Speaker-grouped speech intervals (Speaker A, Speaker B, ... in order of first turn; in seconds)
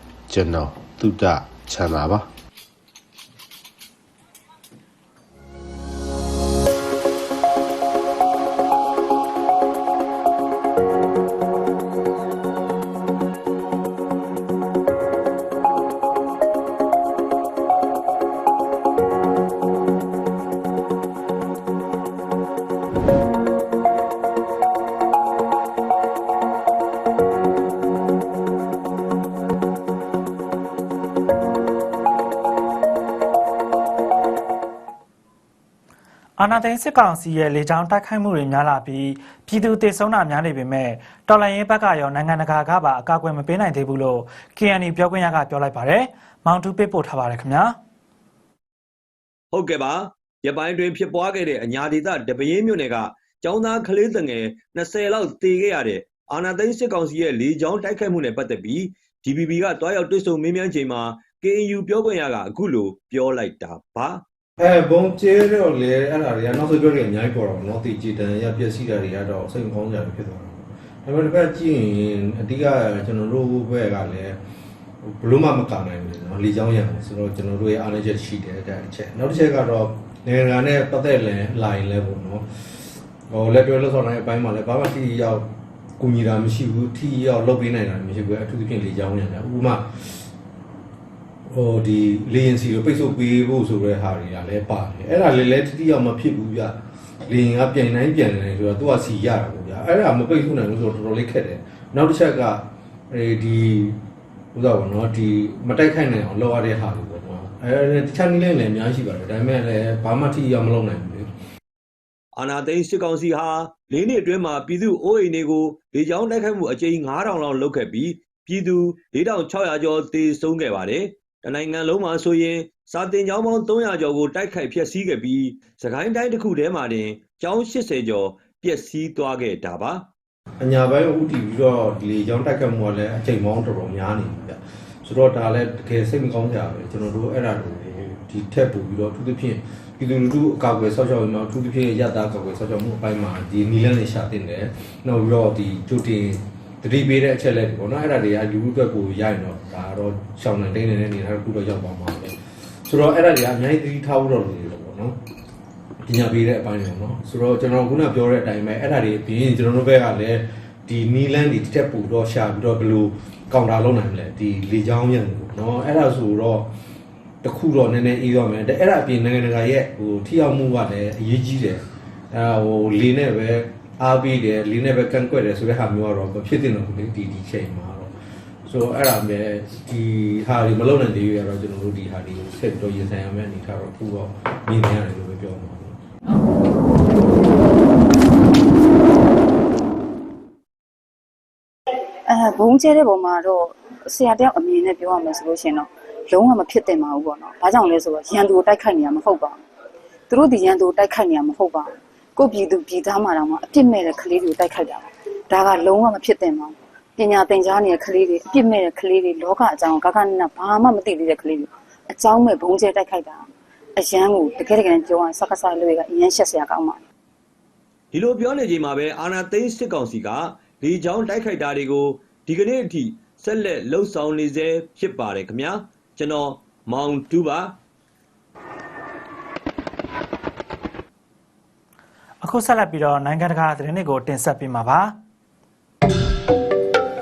Speaker A: 0.3-2.3
Speaker B: 36.4-47.8, 232.4-235.2
Speaker C: 49.5-64.2, 112.4-130.1, 218.1-227.8
Speaker D: 64.6-74.4, 75.0-82.5, 83.3-85.5, 86.0-90.2, 91.5-104.0, 104.5-111.3, 130.6-155.2, 156.0-166.7, 167.4-178.1, 178.7-186.0
Speaker E: 192.3-199.6, 200.3-213.4, 214.0-217.0